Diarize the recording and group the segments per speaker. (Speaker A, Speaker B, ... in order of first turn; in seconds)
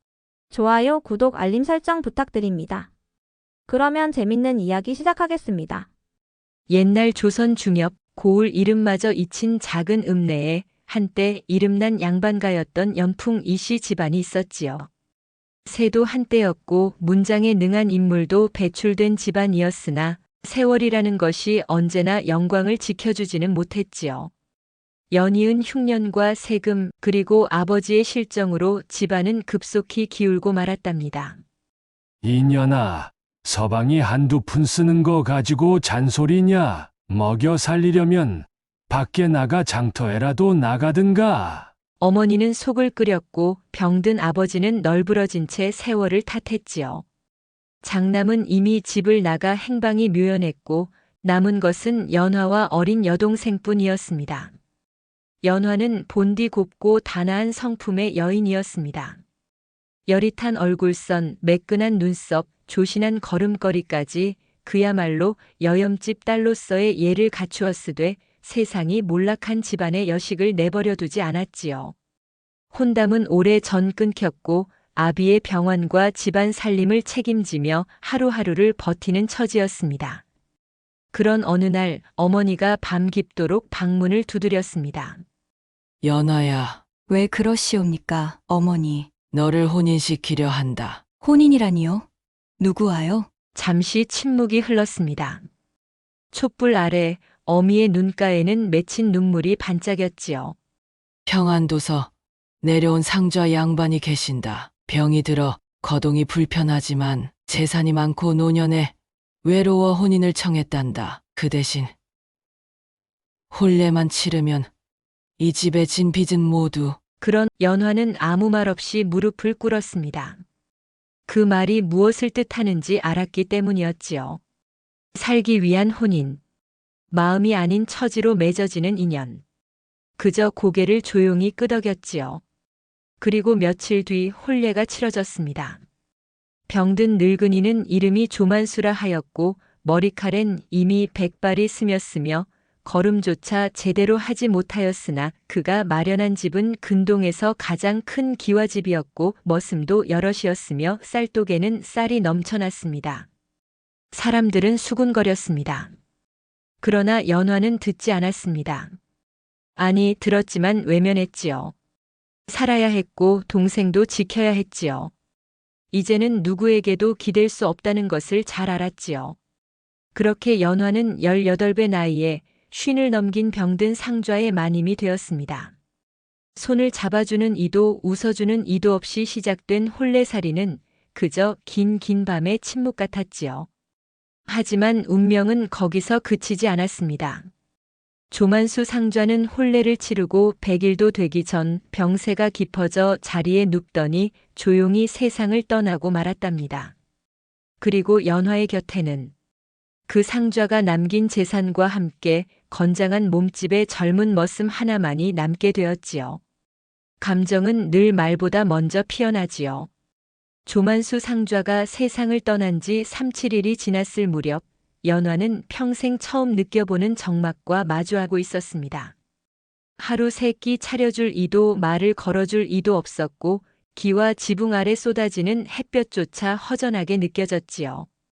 Speaker A: 0.5-2.9, 3.7-5.9
Speaker B: 6.7-14.9, 15.7-24.3, 25.1-31.4, 42.0-47.0, 47.8-54.5, 55.4-59.2, 60.1-71.9, 72.7-80.2, 81.1-85.2, 93.5-95.4, 96.3-100.5, 117.2-120.4, 121.3-124.4, 125.1-126.4, 127.1-129.4, 130.2-132.4, 133.2-135.8, 136.7-153.3, 154.1-155.9, 156.8-158.9, 159.8-161.7, 162.5-165.1, 165.9-169.4, 170.2-175.7, 176.6-183.7, 184.5-187.5, 188.3-196.9, 197.8-199.3, 200.1-206.4, 207.2-209.9, 210.7-219.1, 220.0-228.1
Speaker C: 32.2-41.7
Speaker D: 86.0-86.8, 89.3-91.1, 101.3-102.1, 102.6-111.9, 113.5-114.7, 115.4-117.0
Speaker E: 87.1-89.2, 91.2-92.0, 92.6-93.3